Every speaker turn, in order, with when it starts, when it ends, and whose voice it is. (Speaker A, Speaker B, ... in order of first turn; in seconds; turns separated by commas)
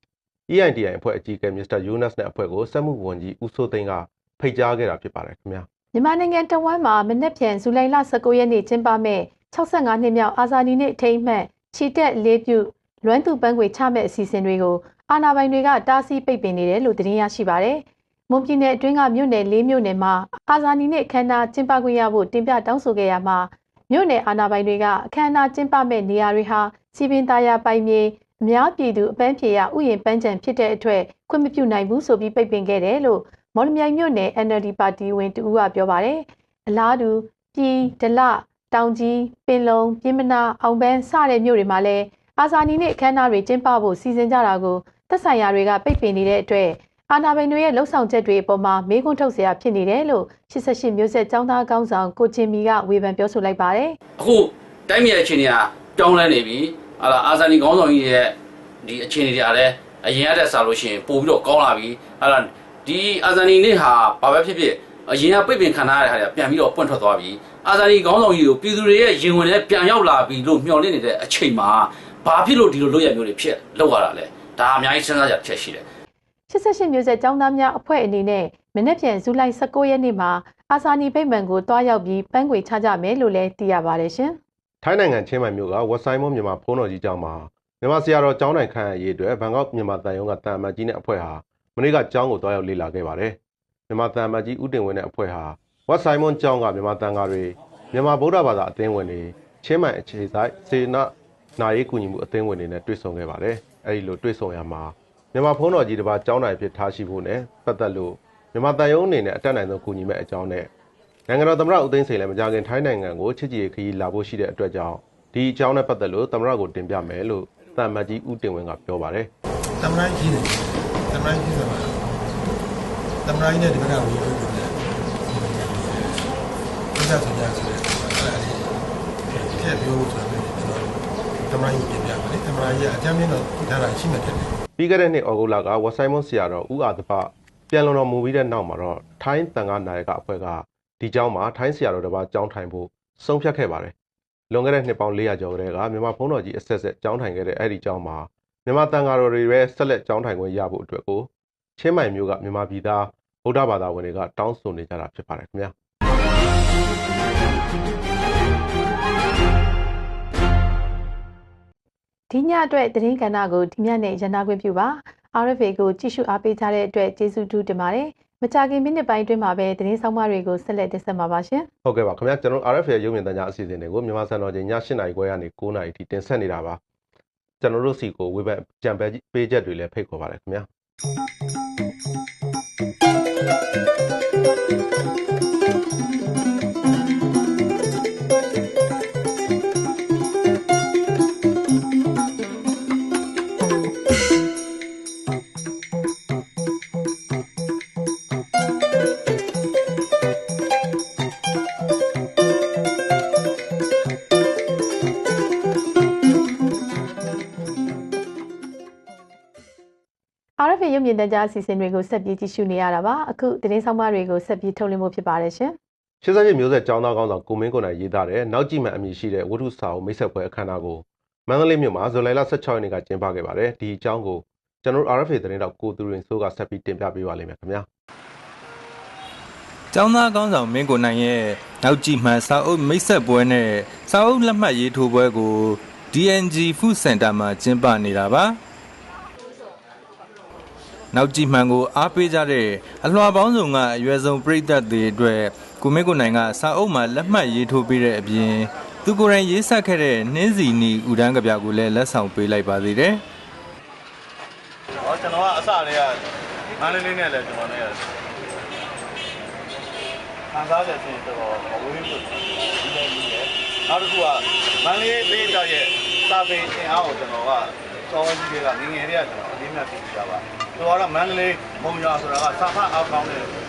Speaker A: 0.5-5.7, Speaker B: 5.9-54.0, Speaker C: 54.2-75.8, Speaker B: 76.5-84.4, Speaker A: 84.8-93.4, Speaker A: 93.9-110.7, Speaker A: 111.3-119.3, Speaker D: 119.8-122.5, Speaker D: 123.2-126.3, Speaker D: 126.9-134.5, Speaker A: 134.8-143.9, Speaker A: 144.5-155.7, Speaker B: 162.3-171.7, Speaker A: 171.8-176.8, Speaker A: 177.6-180.7, Speaker B: 210.6-215.8, Speaker A: 216.2-227.9, Speaker E: 229.9-238.6, Speaker E: 241.1-253.2, Speaker F: 255.0-256.2, Speaker F: 256.8-258.0, Speaker F: 260.5-273.5